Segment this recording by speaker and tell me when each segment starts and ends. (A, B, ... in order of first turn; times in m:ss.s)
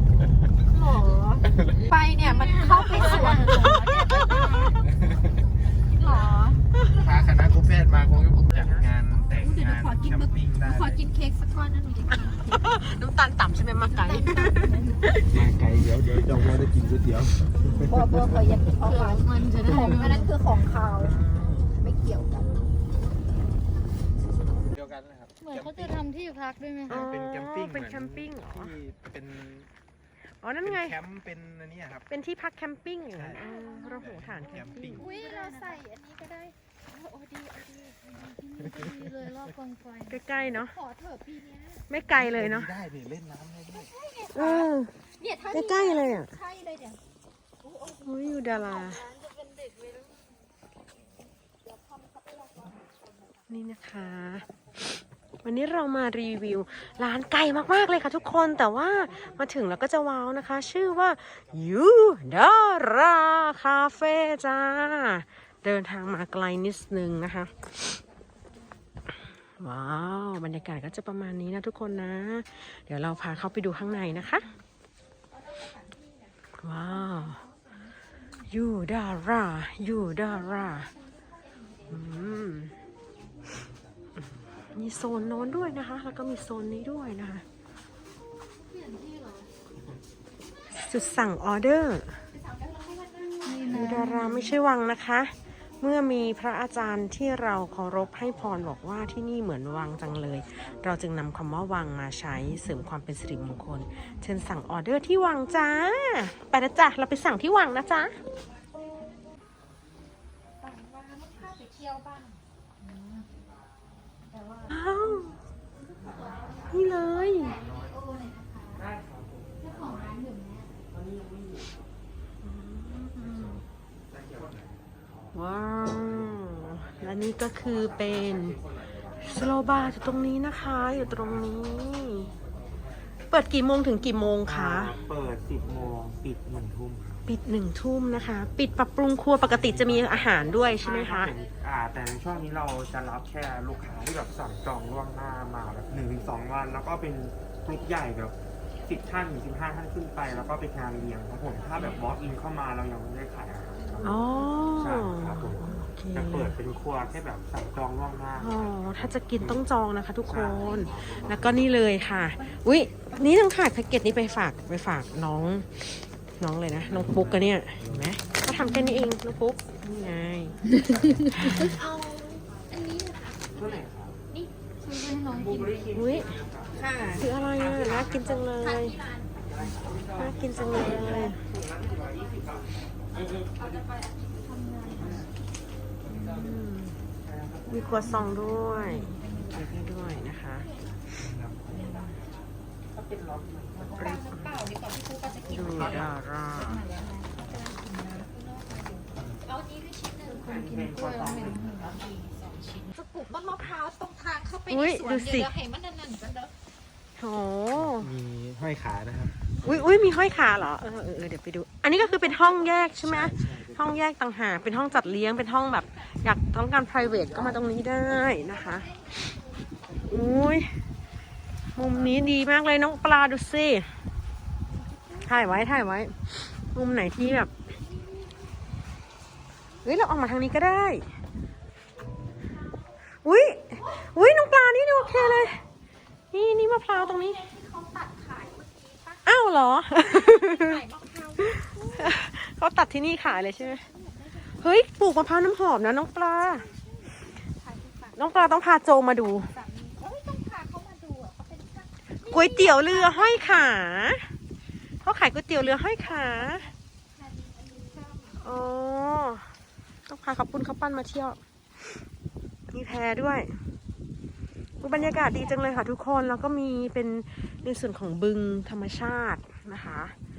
0:00.7-0:01.4 A
0:01.8-0:04.8 B
0:02.2-0:04.8 A
0:03.4-0:04.5 C
0:05.9-0:06.6 B
0:06.9-0:11.0 D
0:09.3-0:12.4 B
0:12.2-0:15.4 C
0:14.0-0:15.0 B
0:15.3-0:17.8 D
0:17.8-0:22.5 B
0:18.8-0:20.3 A
0:21.0-0:21.5 D
0:24.8-0:26.0 D
0:25.4-0:27.1 A
0:26.9-0:28.8 C
0:26.9-0:29.7 D
0:30.2-0:31.0 C
0:30.7-0:32.0 D
0:32.1-0:35.0 C
0:33.4-0:35.8 A
0:33.9-0:35.0 D
0:34.9-0:38.0 B
0:38.0-0:40.2 A
0:40.1-0:40.8 C
0:40.6-0:41.9 B
0:41.9-0:42.8 C
0:42.2-0:43.9 D
0:43.7-0:47.0 B
0:44.3-0:44.9 C
0:45.5-0:46.3 C
0:47.6-0:49.9 B
0:48.0-0:49.1 C
0:51.7-0:52.8 B
0:53.5-0:54.4 C
0:55.4-1:08.0 C
1:09.6-1:14.5 C
1:15.3-1:16.3 B
1:16.6-1:17.4 C
1:18.4-1:20.9 C
1:20.2-1:22.0 B
1:21.9-1:22.7 C
1:24.7-1:27.4 C
1:28.7-1:29.5 B
1:30.7-1:32.2 C
1:32.3-1:33.9 B
1:33.4-1:34.6 A
1:33.7-1:48.1 C
1:50.6-1:52.4 B
1:52.8-1:53.3 A
1:54.7-1:55.4 C
1:55.7-1:57.9 B
1:56.7-1:57.6 C
1:57.8-1:58.8 A
1:58.8-2:00.2 E
1:59.6-2:00.8 A
2:00.9-2:01.9 E
2:02.4-2:03.6 C
2:04.1-2:04.6 D
2:05.3-2:12.3 C
2:09.1-2:09.6 E
2:11.1-2:11.4 E
2:13.3-2:14.9 C
2:14.4-2:17.4 E
2:17.2-2:21.3 C
2:19.4-2:34.2 E
2:31.6-2:32.0 B
2:34.0-2:34.8 B
2:34.0-2:36.6 C
2:34.8-2:39.6 E
2:38.4-2:50.6 C
2:40.2-2:41.6 E
2:40.8-2:41.2 B
2:47.0-2:48.2 D
2:48.5-2:49.1 A
2:50.7-2:51.5 A
2:51.3-2:51.8 C
2:51.5-2:54.5 B
2:53.5-2:54.2 E
2:54.8-2:56.4 A
2:55.2-2:58.4 E
2:55.9-2:56.3 C
2:56.7-2:59.4 B
2:57.1-2:59.0 C
2:59.4-3:03.7 E
3:00.1-3:01.4 C
3:00.7-3:04.9 B
3:04.5-3:05.2 A
3:04.9-3:05.3 E
3:06.1-3:06.3 E
3:06.1-3:07.0 C
3:07.2-3:08.2 E
3:07.7-3:10.7 C
3:07.9-3:09.7 A
3:11.2-3:12.0 E
3:11.5-3:11.9 D
3:12.0-3:12.2 B
3:12.9-3:14.6 E
3:13.8-3:16.1 B
3:13.9-3:14.3 C
3:15.5-3:16.8 C
3:15.5-3:16.1 E
3:16.5-3:17.0 A
3:16.8-3:20.5 B
3:20.3-3:22.0 E
3:20.4-3:22.0 A
3:21.9-3:26.5 B
3:24.7-3:25.5 C
3:27.2-3:28.1 C
3:27.9-3:30.0 D
3:29.6-3:39.1 C
3:33.1-3:33.8 D
3:38.5-3:40.3 B
3:40.1-3:40.8 C
3:41.7-3:43.9 C
3:44.7-3:45.4 B
3:45.2-3:47.5 C
3:47.7-3:48.5 B
3:49.8-3:51.1 C
3:53.2-3:55.6 C
3:53.8-3:54.1 B
3:56.3-3:57.4 C
3:56.9-3:59.2 B
3:59.2-4:00.8 C
4:00.0-4:02.1 B
4:01.5-4:03.8 C
4:03.2-4:04.7 B
4:04.5-4:06.7 C
4:06.5-4:08.2 B
4:08.1-4:09.5 C
4:09.5-4:13.7 B
4:12.3-4:14.3 C
4:15.0-4:16.7 C
4:16.0-4:18.5 B
4:18.4-4:19.5 C
4:20.1-4:22.0 C
4:22.7-4:23.6 C
4:24.8-4:25.6 B
4:24.8-4:30.2 C